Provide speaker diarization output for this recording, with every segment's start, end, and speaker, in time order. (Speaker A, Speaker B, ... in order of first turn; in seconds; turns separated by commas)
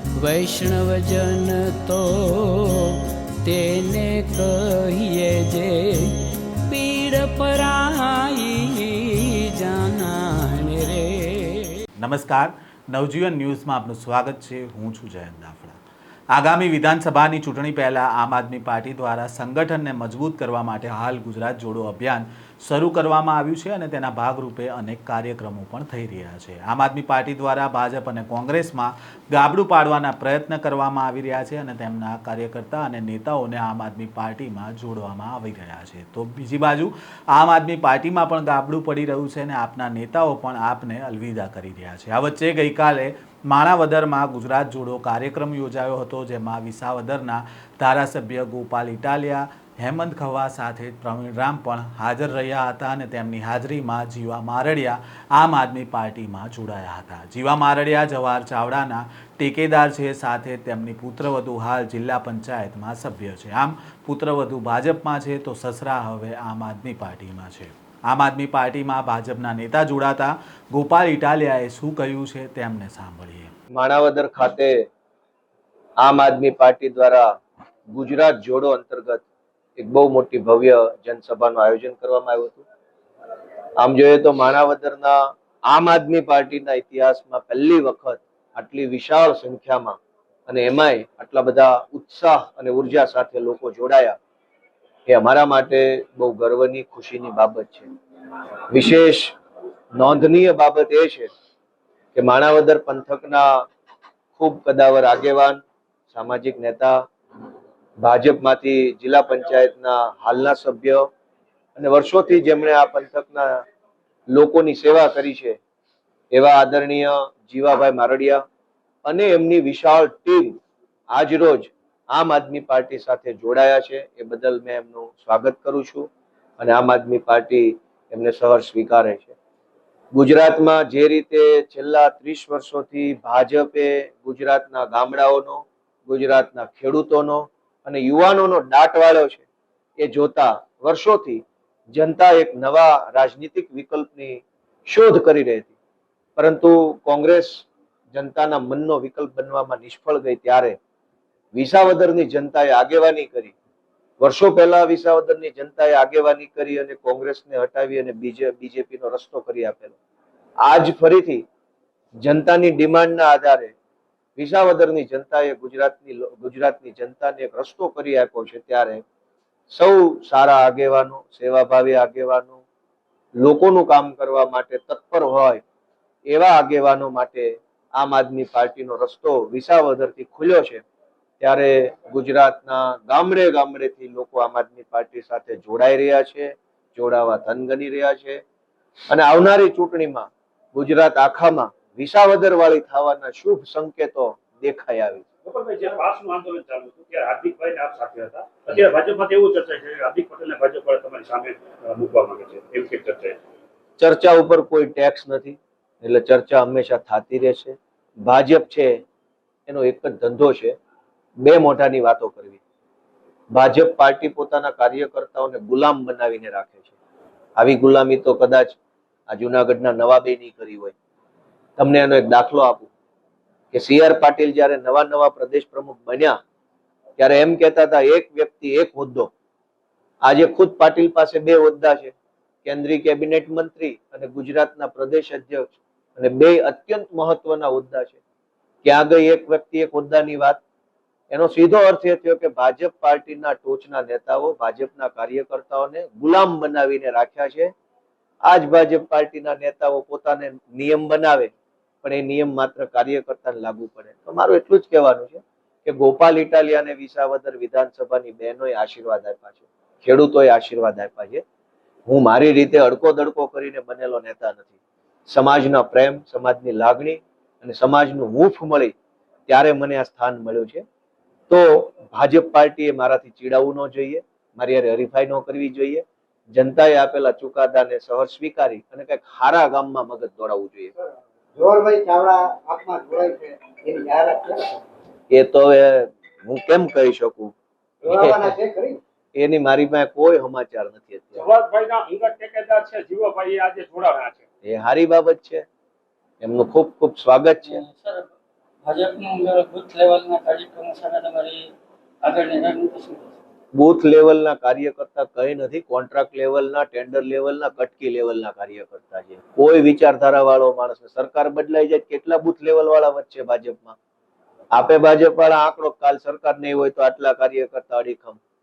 Speaker A: 0.2-11.8, Speaker B: 12.0-15.8, Speaker B: 16.3-73.5, Speaker C: 73.7-74.8, Speaker C: 76.0-77.3, Speaker C: 77.9-79.2, Speaker C: 79.8-82.6, Speaker C: 83.8-94.2, Speaker C: 95.1-97.9, Speaker C: 98.7-99.3, Speaker C: 100.0-101.3, Speaker C: 102.2-103.5, Speaker C: 104.3-107.0, Speaker C: 108.0-111.1, Speaker C: 111.8-113.6, Speaker C: 114.3-115.6, Speaker C: 116.3-118.4, Speaker C: 119.0-120.6, Speaker C: 121.1-126.1, Speaker C: 126.6-129.3, Speaker C: 130.1-139.4, Speaker C: 140.0-145.7, Speaker C: 146.4-150.8, Speaker C: 151.6-153.5, Speaker C: 154.2-160.0, Speaker C: 160.6-161.4, Speaker C: 162.2-163.7, Speaker C: 164.4-169.0, Speaker C: 169.7-172.6, Speaker C: 173.4-175.6, Speaker C: 176.3-180.8, Speaker C: 181.4-188.4, Speaker C: 189.1-195.2, Speaker D: 195.5-203.4, Speaker C: 204.0-209.0, Speaker C: 209.7-210.8, Speaker C: 211.4-212.6, Speaker C: 213.5-216.9, Speaker C: 217.6-218.8, Speaker C: 219.3-220.9, Speaker C: 221.8-222.9, Speaker C: 223.7-226.4, Speaker C: 227.2-229.3, Speaker C: 230.2-238.2, Speaker C: 238.8-240.6, Speaker C: 241.3-247.7, Speaker C: 248.5-251.5, Speaker C: 252.0-261.4, Speaker C: 262.1-264.7, Speaker C: 265.3-268.9, Speaker C: 269.5-270.9, Speaker C: 271.5-280.9, Speaker E: 281.0-284.8, Speaker C: 285.3-287.5, Speaker E: 288.1-289.0, Speaker C: 288.1-288.5, Speaker C: 289.4-291.5, Speaker D: 291.4-294.5, Speaker C: 294.6-295.6, Speaker C: 296.4-297.8, Speaker F: 297.7-298.3, Speaker F: 298.9-301.7, Speaker F: 302.2-303.4, Speaker C: 303.8-314.0, Speaker C: 314.8-318.4